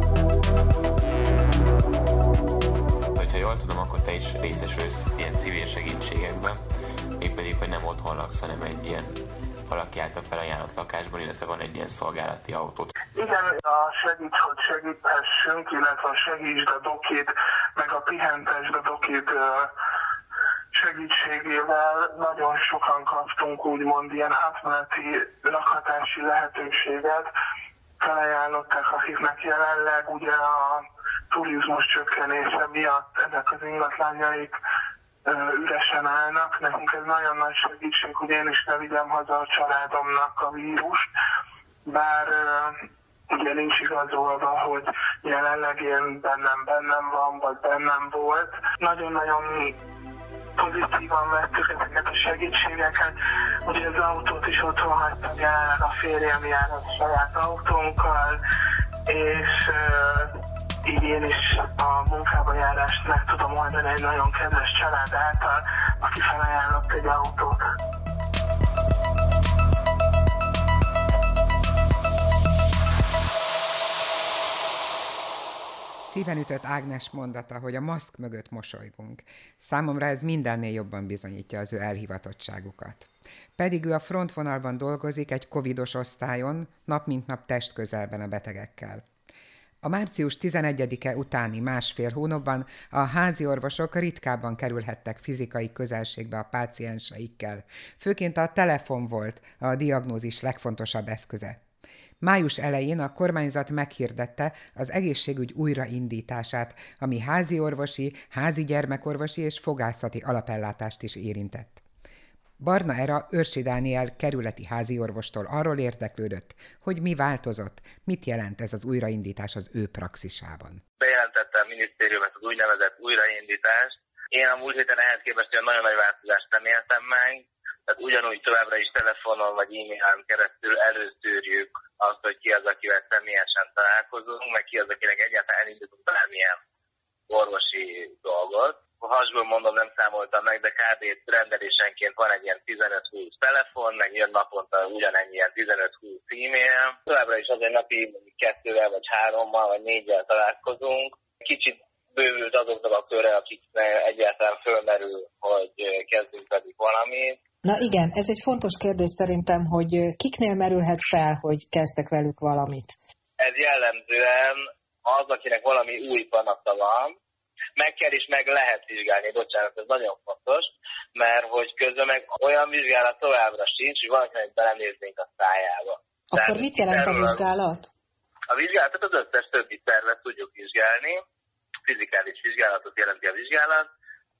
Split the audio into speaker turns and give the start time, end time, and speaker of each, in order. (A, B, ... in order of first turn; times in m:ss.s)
0:03.2-0:06.6 A
0:07.2-0:12.9 A
0:13.2-0:19.7 B
0:20.7-0:27.3 B
0:28.0-0:34.6 B
0:35.2-0:41.1 B
0:41.8-0:49.8 B
0:50.6-0:58.4 B
0:59.1-1:00.3 B
1:00.8-1:07.6 B
1:16.0-1:29.0 C
1:29.8-1:41.6 C
1:42.2-1:51.8 C
1:52.6-2:00.8 C
2:01.0-2:16.6 D
2:17.3-2:37.4 D
2:37.6-2:42.9 E
2:43.4-2:47.2 D
2:47.8-2:57.4 D
2:56.3-2:57.9 E
2:58.5-3:01.2 D
3:01.8-3:03.9 D